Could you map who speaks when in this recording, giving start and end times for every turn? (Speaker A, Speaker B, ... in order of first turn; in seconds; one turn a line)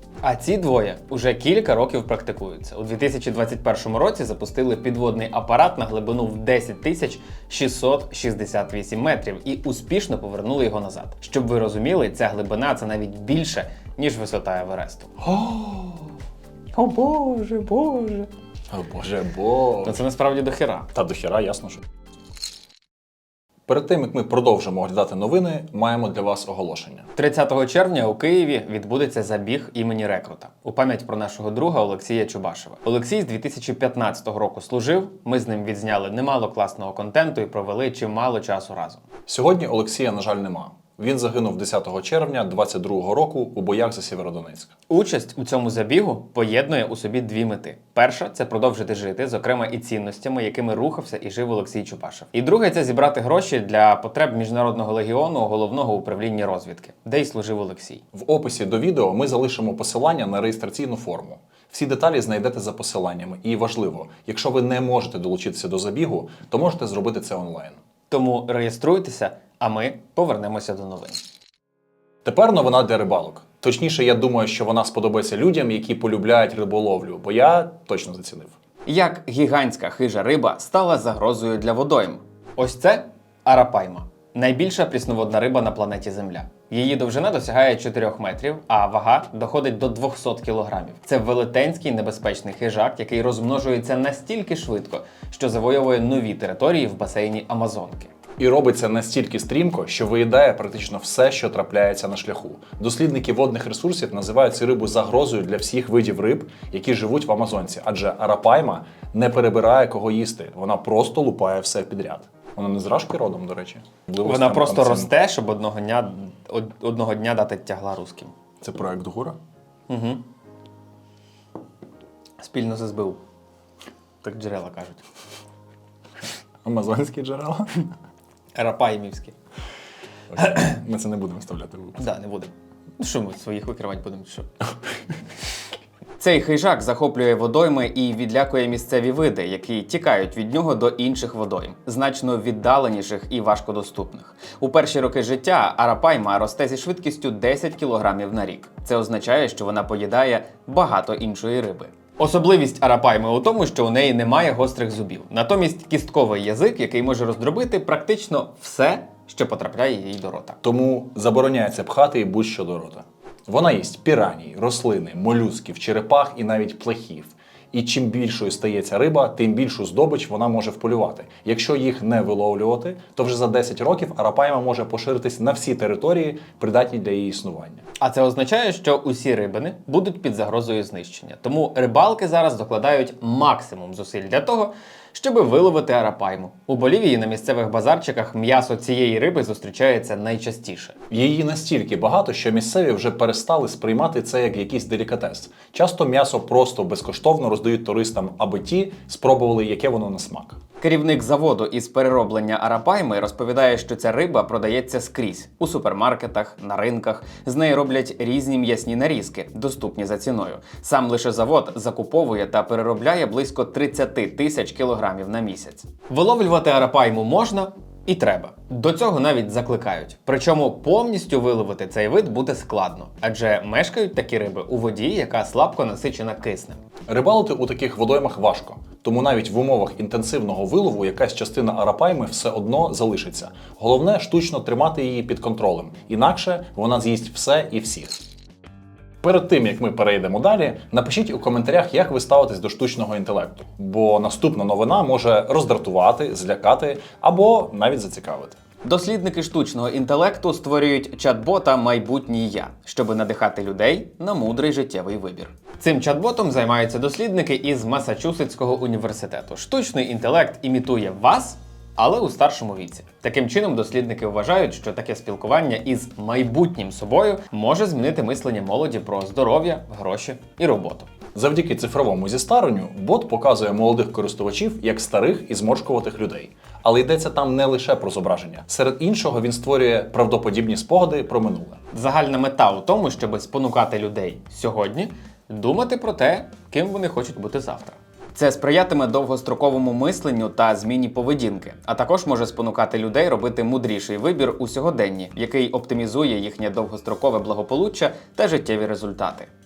Speaker A: 0.2-15.3
Speaker B: 15.3-16.0
Speaker A: 16.7-18.3
Speaker B: 18.7-20.0
Speaker A: 19.8-20.9
Speaker B: 20.9-21.8
Speaker B: 23.7-27.1
Speaker A: 27.2-39.0
Speaker B: 39.3-44.7
Speaker A: 44.9-58.0
Speaker B: 58.1-67.8
Speaker A: 68.1-71.2
Speaker B: 72.2-78.5
Speaker A: 78.9-98.1
Speaker B: 98.4-115.1
Speaker A: 114.2-118.3
Speaker B: 118.6-119.4
Speaker A: 119.9-120.2
Speaker A: 122.4-123.2
Speaker A: 124.2-125.0
Speaker B: 126.7-127.8
Speaker A: 128.6-129.3
Speaker B: 130.3-132.1
Speaker A: 132.0-134.5
Speaker A: 136.2-160.6
Speaker B: 160.6-177.8
Speaker A: 178.0-191.0
Speaker B: 191.1-200.6
Speaker A: 200.8-226.8
Speaker B: 227.1-238.2
Speaker B: 239.2-248.6
Speaker A: 248.8-271.1
Speaker B: 271.4-281.8
Speaker A: 281.9-299.5